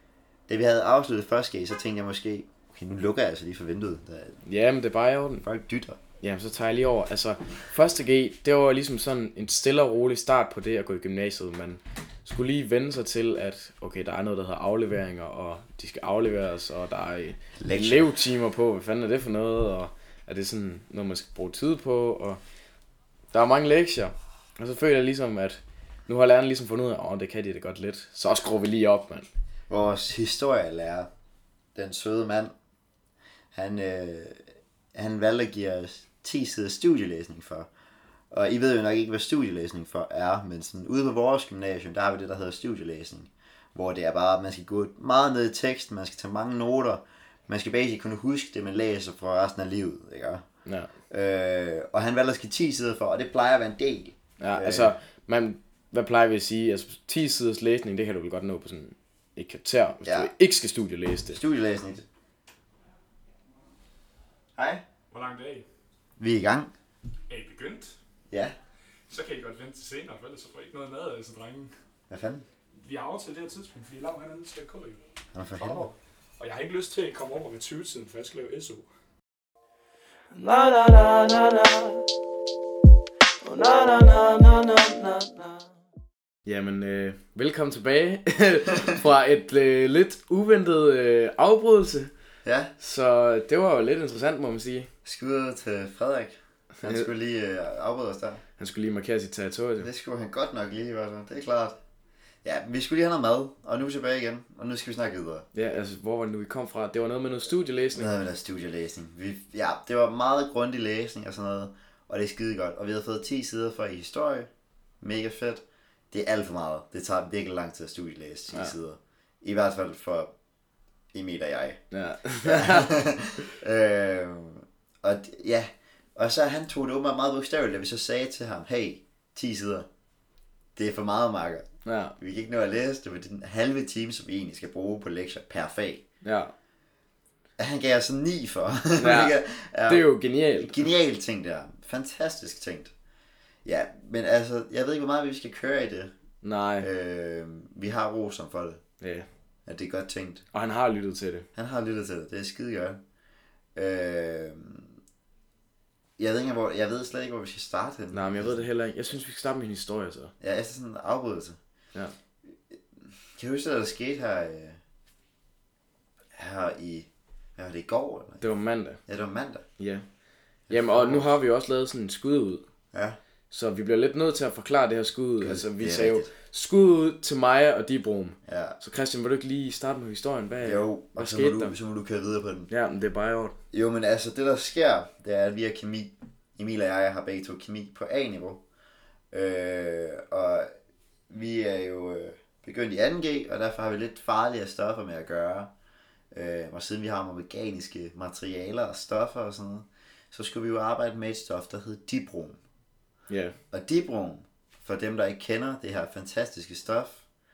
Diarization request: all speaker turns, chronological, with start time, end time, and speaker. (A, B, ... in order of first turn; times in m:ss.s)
0:00.5-0:04.4 A
0:04.4-0:05.5 B
0:05.4-0:06.0 A
0:06.2-0:22.4 B
0:17.6-0:18.2 A
0:23.3-0:29.3 B
0:29.7-0:31.1 A
0:31.8-0:32.5 A
0:33.5-0:34.4 A
0:34.9-0:37.7 A
0:38.3-0:50.4 A
0:50.7-0:50.9 B
0:51.1-0:55.0 A
0:54.4-1:01.4 B
1:00.0-1:00.3 A
1:01.3-1:02.0 A
1:04.6-1:04.8 A
1:05.1-1:05.6 C
1:06.2-1:06.7 A
1:07.3-1:07.9 C
1:09.1-1:11.7 C
1:12.1-1:12.4 A
1:12.8-1:15.0 C
1:15.3-1:15.9 A
1:15.6-1:18.8 C
1:20.3-1:22.0 D
1:23.4-1:25.7 D
1:26.4-1:32.1 B
1:32.4-1:32.7 A
1:32.8-1:34.9 B
1:35.0-1:38.4 A
1:36.8-1:37.1 B
1:38.6-1:39.9 B
1:39.8-1:41.8 A
1:42.4-1:45.5 A
1:45.5-1:48.1 B
1:47.9-1:54.5 A
1:55.0-2:00.3 A
2:01.1-2:01.8 A
2:01.9-2:03.0 B
2:02.4-2:09.9 A
2:10.8-2:16.0 A
2:11.8-2:12.2 B
2:16.2-2:16.5 B
2:17.6-2:20.1 A
2:19.0-2:19.4 B
2:19.9-2:20.8 B
2:20.6-2:22.9 A
2:23.6-2:26.1 A
2:26.4-2:26.9 B
2:26.8-2:28.8 A
2:29.0-2:29.3 B
2:29.7-2:30.4 A
2:30.5-2:31.5 B
2:31.6-2:33.0 A
2:33.8-2:35.0 A
2:36.2-2:38.6 A
2:38.1-2:40.3 B
2:40.4-2:41.6 A
2:43.4-2:44.8 A
2:46.4-2:48.4 A
2:48.4-2:49.0 B
2:49.1-2:49.6 A
2:49.8-2:50.0 B
2:50.7-2:51.4 A
2:50.7-2:52.6 B
2:52.9-2:53.2 A
2:53.5-3:01.7 B
2:55.4-2:56.3 A
2:58.5-2:58.8 A
3:00.6-3:02.7 A
3:02.7-3:03.6 B
3:03.7-3:08.6 A
3:09.3-3:10.7 A
3:11.3-3:15.7 A
3:16.3-3:22.6 A
3:23.3-3:23.6 B
3:23.7-3:27.2 A